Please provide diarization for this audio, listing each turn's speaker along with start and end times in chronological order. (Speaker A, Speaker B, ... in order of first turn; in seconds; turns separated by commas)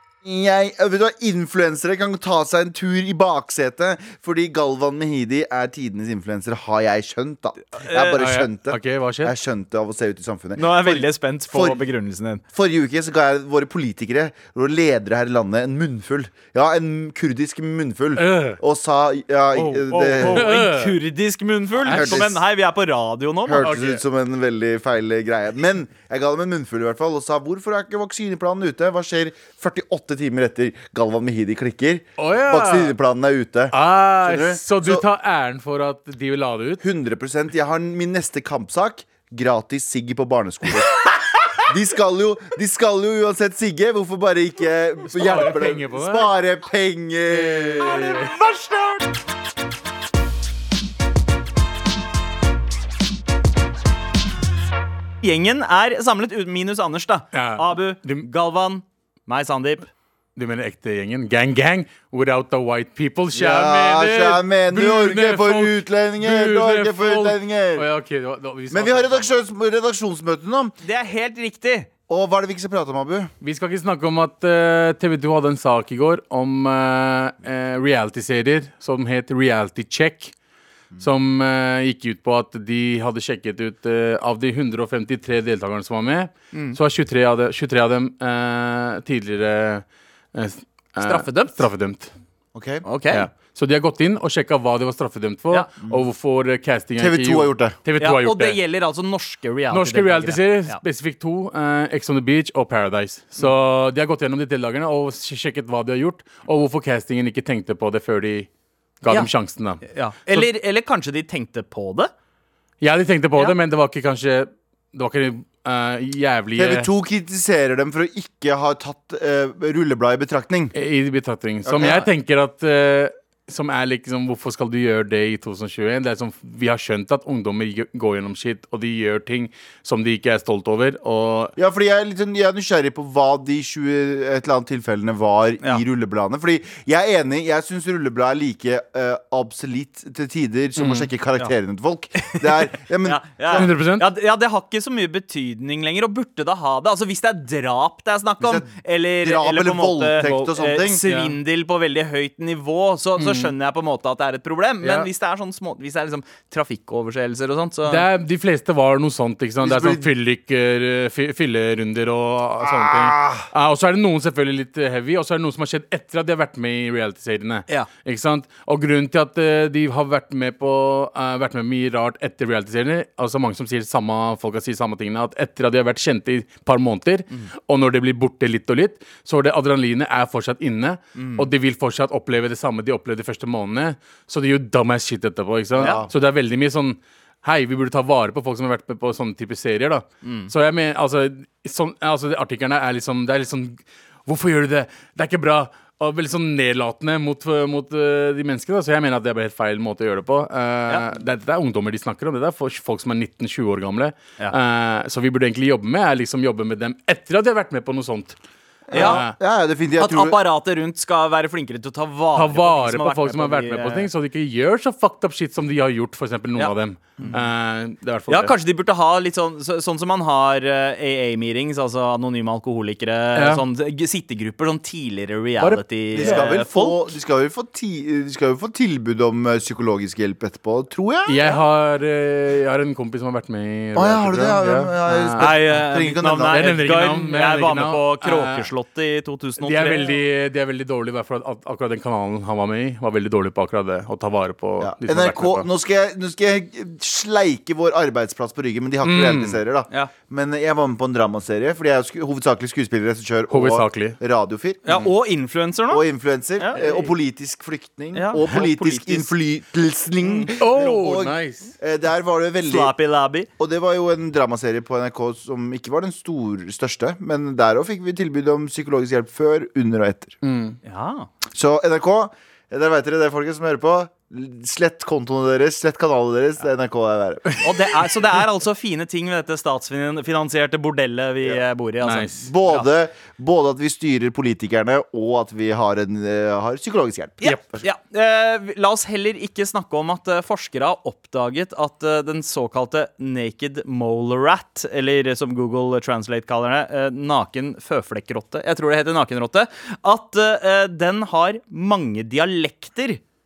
Speaker A: 0.2-11.8, Speaker B: 7.7-8.2, Speaker C: 8.2-9.3, Speaker B: 10.6-12.4, Speaker A: 12.5-20.5, Speaker C: 18.2-18.6, Speaker B: 19.6-23.7, Speaker C: 20.1-21.0, Speaker C: 21.8-22.3, Speaker A: 21.9-22.3, Speaker A: 23.5-35.0, Speaker C: 23.6-24.0, Speaker C: 32.2-33.0, Speaker C: 33.7-36.8, Speaker A: 36.8-41.0, Speaker A: 41.6-48.1, Speaker C: 45.1-46.3, Speaker C: 47.3-48.4, Speaker B: 47.8-49.0, Speaker B: 55.2-59.9, Speaker C: 57.3-58.3, Speaker C: 60.4-69.4, Speaker A: 63.3-67.9, Speaker A: 68.7-70.8, Speaker B: 70.8-71.9, Speaker A: 72.1-73.3, Speaker C: 73.4-80.3, Speaker C: 81.0-92.1, Speaker B: 91.0-91.6, Speaker A: 92.5-92.8, Speaker B: 92.8-93.3, Speaker C: 93.1-98.6, Speaker A: 95.8-96.1, Speaker A: 97.0-97.8, Speaker B: 98.0-100.8, Speaker C: 99.7-108.5, Speaker C: 109.0-110.5, Speaker B: 109.8-112.1, Speaker C: 112.8-116.9, Speaker A: 116.6-120.7, Speaker C: 120.7-131.6, Speaker A: 121.7-122.1, Speaker A: 131.6-143.7, Speaker C: 140.8-141.1, Speaker B: 143.0-158.1, Speaker C: 143.6-144.1, Speaker A: 148.4-151.0, Speaker C: 151.0-151.4, Speaker C: 153.2-153.5, Speaker C: 154.8-155.1, Speaker C: 157.9-208.4, Speaker A: 159.6-160.1, Speaker A: 162.6-163.5, Speaker B: 181.2-181.5, Speaker B: 185.8-186.1, Speaker A: 185.8-186.1, Speaker B: 190.2-190.5, Speaker A: 208.9-210.4, Speaker C: 208.9-209.3, Speaker B: 208.9-209.2, Speaker B: 210.0-214.1, Speaker C: 212.3-218.5, Speaker B: 216.6-217.4, Speaker B: 218.3-227.1, Speaker C: 223.4-223.6, Speaker C: 225.6-226.5, Speaker A: 226.2-231.6, Speaker C: 231.3-235.7, Speaker A: 233.9-236.7, Speaker B: 235.4-240.1, Speaker C: 236.5-238.7, Speaker C: 239.6-245.7, Speaker A: 244.8-255.1, Speaker C: 249.0-249.6, Speaker C: 253.5-254.2, Speaker B: 254.8-256.1, Speaker A: 255.9-262.9, Speaker C: 256.8-257.1, Speaker B: 258.1-259.3, Speaker B: 260.2-260.5, Speaker C: 260.6-261.7, Speaker B: 262.6-263.5, Speaker A: 263.6-270.4, Speaker C: 270.4-270.8, Speaker B: 270.8-271.3, Speaker A: 271.5-277.6, Speaker B: 277.6-282.9, Speaker C: 282.0-282.4, Speaker A: 282.4-287.9, Speaker B: 287.4-303.2